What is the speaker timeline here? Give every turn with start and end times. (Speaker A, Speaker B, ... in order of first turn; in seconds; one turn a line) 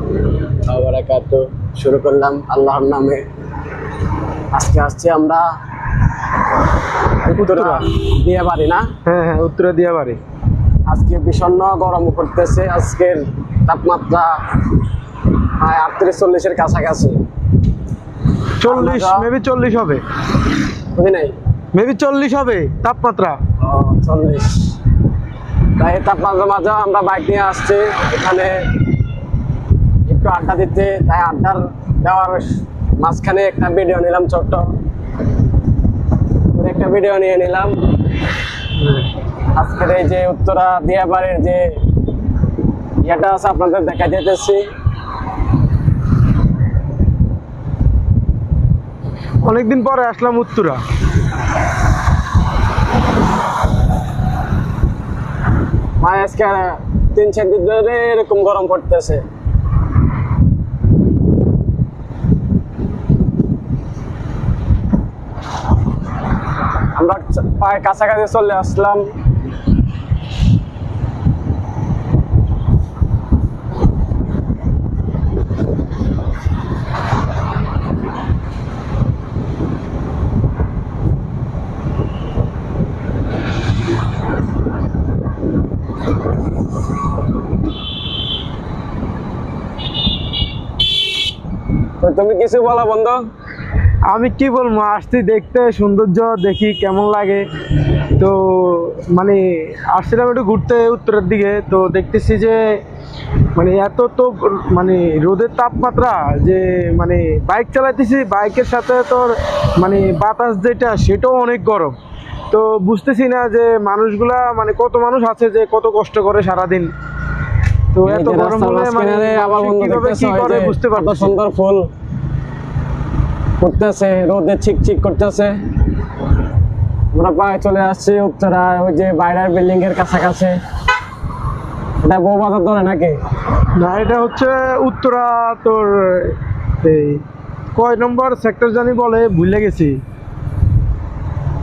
Speaker A: 0.5-3.3
Speaker A: 4.5-5.5
Speaker A: 7.3-8.9
Speaker B: 7.3-7.9
Speaker B: 9.1-10.2
Speaker A: 10.9-14.4
Speaker A: 15.4-17.2
Speaker B: 18.6-20.0
Speaker A: 18.6-19.3
Speaker A: 20.9-21.4
Speaker B: 21.7-23.4
Speaker A: 23.6-24.8
Speaker A: 25.8-28.9
Speaker A: 30.1-34.7
Speaker A: 36.5-37.8
Speaker A: 39.5-41.8
Speaker A: 43.0-44.6
Speaker B: 49.5-50.8
Speaker A: 56.0-59.2
Speaker A: 66.8-69.1
Speaker A: 92.0-93.2
Speaker B: 94.1-97.5
Speaker B: 98.2-102.8
Speaker B: 103.5-112.0
Speaker B: 112.5-116.9
Speaker B: 117.9-121.4
Speaker A: 118.0-121.9
Speaker A: 123.6-125.5
Speaker A: 127.1-130.6
Speaker A: 132.0-133.2
Speaker B: 133.8-137.2
Speaker B: 137.8-140.0